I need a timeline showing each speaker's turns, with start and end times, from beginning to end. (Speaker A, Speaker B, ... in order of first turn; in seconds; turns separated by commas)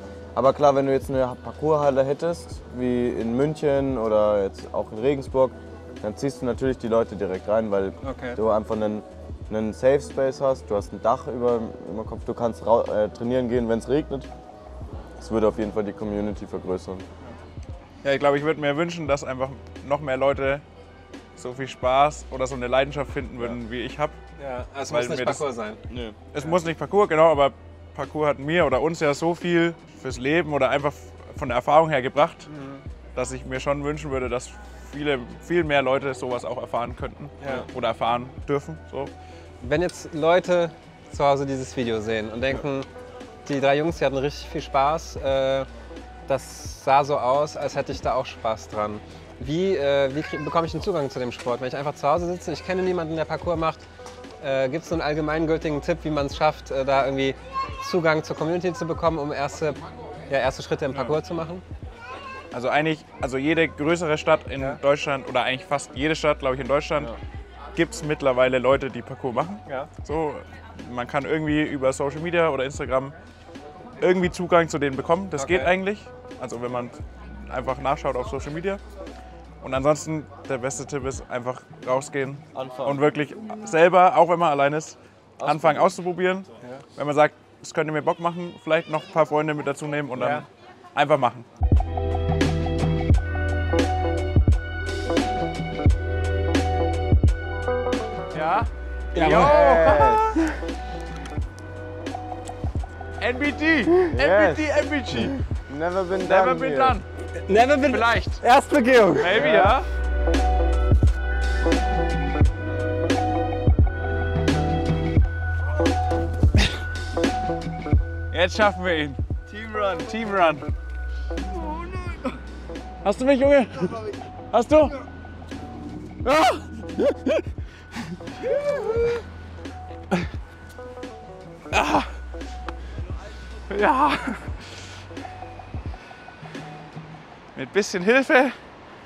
Speaker A: 0.3-14.3, Speaker B: 8.0-8.4, Speaker A: 15.2-17.1, Speaker C: 18.0-20.6, Speaker C: 21.4-24.2, Speaker B: 24.4-25.8, Speaker C: 24.9-25.5, Speaker A: 25.9-26.2, Speaker C: 26.3-32.5, Speaker B: 32.5-32.8, Speaker C: 33.1-39.1, Speaker B: 37.4-37.7, Speaker B: 39.6-42.9, Speaker B: 43.4-45.7, Speaker B: 46.3-53.9, Speaker B: 54.4-61.6, Speaker C: 60.9-61.2, Speaker C: 62.5-67.1, Speaker C: 67.8-73.2, Speaker C: 74.0-78.8, Speaker B: 75.3-75.7, Speaker C: 79.6-91.5, Speaker A: 82.5-83.1, Speaker A: 85.4-85.9, Speaker B: 90.2-90.4, Speaker C: 98.3-100.3, Speaker B: 99.1-100.2, Speaker A: 99.2-100.3, Speaker C: 103.2-105.3, Speaker A: 104.1-107.0, Speaker C: 106.2-107.1, Speaker B: 107.4-109.7, Speaker C: 107.9-108.4, Speaker C: 109.1-109.9, Speaker C: 118.3-119.2, Speaker A: 119.5-120.1, Speaker C: 119.8-120.7, Speaker A: 121.6-122.2, Speaker C: 123.0-125.0, Speaker C: 126.3-126.7, Speaker A: 128.6-129.0, Speaker C: 131.7-132.2, Speaker C: 133.7-134.7, Speaker C: 137.6-138.7